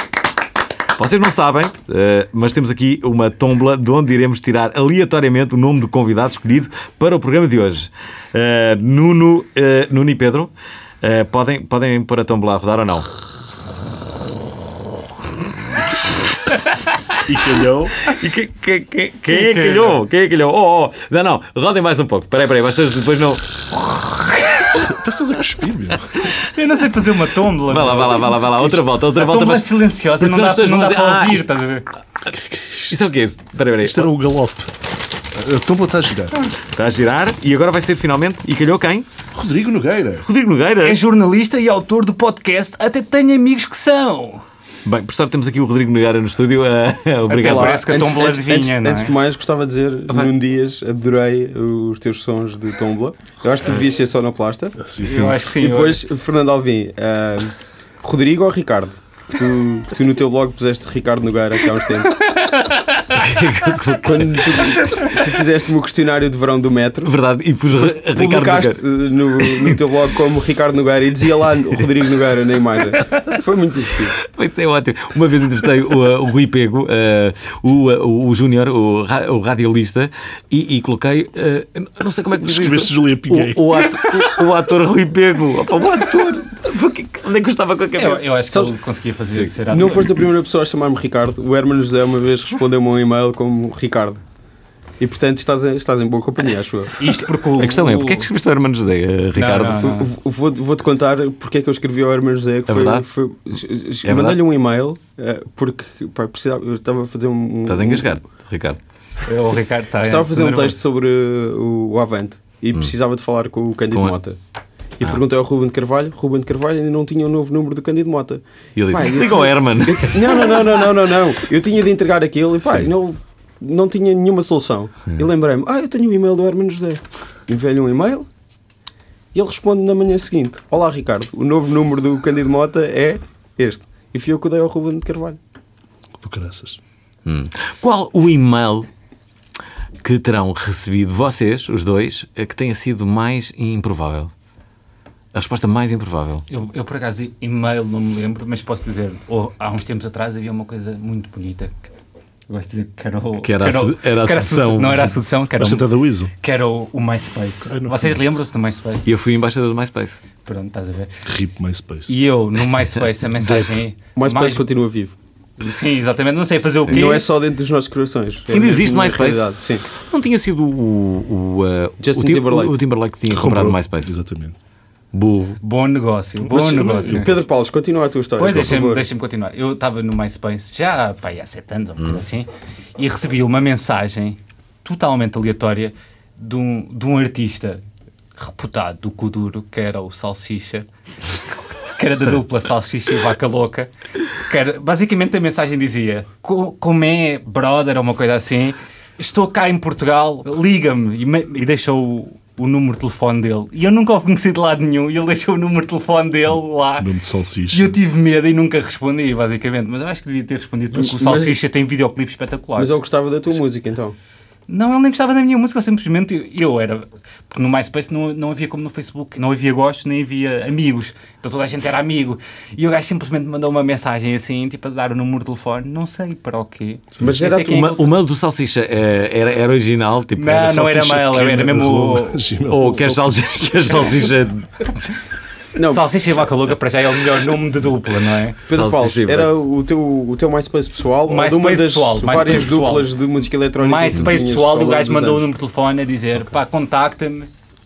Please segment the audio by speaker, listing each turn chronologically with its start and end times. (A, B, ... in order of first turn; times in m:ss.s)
0:01.0-0:10.5 A
0:11.0-0:13.1 A
0:17.2-0:18.0 B
0:18.0-0:24.8 A
0:19.4-0:19.9 C
0:24.8-0:26.1 B
0:26.3-0:31.9 C
0:27.7-0:31.5 A
0:32.3-0:33.0 B
0:32.9-0:34.1 A
0:33.8-0:34.7 B
0:35.3-0:36.5 B
0:36.7-0:39.1 A
0:39.3-0:40.3 B
0:40.2-0:41.0 A
0:40.8-0:44.4 C
0:44.8-0:47.9 A
0:47.3-0:49.1 C
0:47.4-0:54.8 D
0:54.8-0:55.5 B
0:55.0-0:56.0 C
0:55.5-1:02.3 D
1:02.2-1:03.3 C
1:03.1-1:05.1 A
1:04.0-1:07.1 D
1:07.0-1:09.8 A
1:07.7-1:14.2 D
1:14.2-1:28.2 A
1:22.4-1:23.6 B
1:27.9-1:30.1 C
1:29.6-1:34.2 D
1:35.0-1:36.9 D
1:37.0-1:38.3 C
1:37.6-1:39.9 A
1:39.3-1:40.1 C
1:39.8-1:48.1 D
1:42.7-1:43.0 A
1:44.0-1:44.4 A
1:47.6-1:48.8 A
1:49.2-1:50.8 C
1:50.0-1:54.4 D
1:55.0-2:08.3 D
1:58.8-2:00.7 A
2:02.6-2:02.9 A
2:09.3-2:15.4 D
2:16.2-2:16.8 B
2:17.2-2:18.9 A
2:20.0-2:24.3 A
2:25.3-2:26.4 A
2:26.5-2:31.8 C
2:32.5-2:35.9 C
2:33.4-2:35.2 A
2:35.6-2:36.3 B
2:36.4-2:39.1 C
2:37.6-2:38.2 B
2:39.0-2:40.2 A
2:40.4-2:41.1 C
2:41.2-2:42.1 B
2:42.1-2:44.6 C
2:44.2-2:45.2 D
2:45.6-2:47.2 C
2:46.9-2:49.8 D
2:46.9-2:47.2 A
2:48.5-2:54.1 A
2:52.0-2:52.7 D
2:53.3-2:54.6 B
2:55.1-2:55.6 A
2:55.6-2:57.4 C
2:56.4-2:57.4 B
2:57.1-2:59.0 D
2:58.4-3:07.8 C
3:08.4-3:27.1 C
3:27.0-3:27.9 B
3:27.7-3:33.0 C
3:30.9-3:31.6 D
3:32.8-3:34.2 D
3:34.7-3:48.1 C
3:47.2-3:51.2 A
3:47.2-3:47.7 D
3:50.4-3:52.5 C
3:51.0-3:54.3 B
3:52.7-3:54.8 A
3:55.7-3:56.0 D
3:55.8-3:58.6 C
3:58.6-3:59.5 A
3:58.7-4:05.4 D
4:01.3-4:03.1 C
4:03.8-4:07.5 C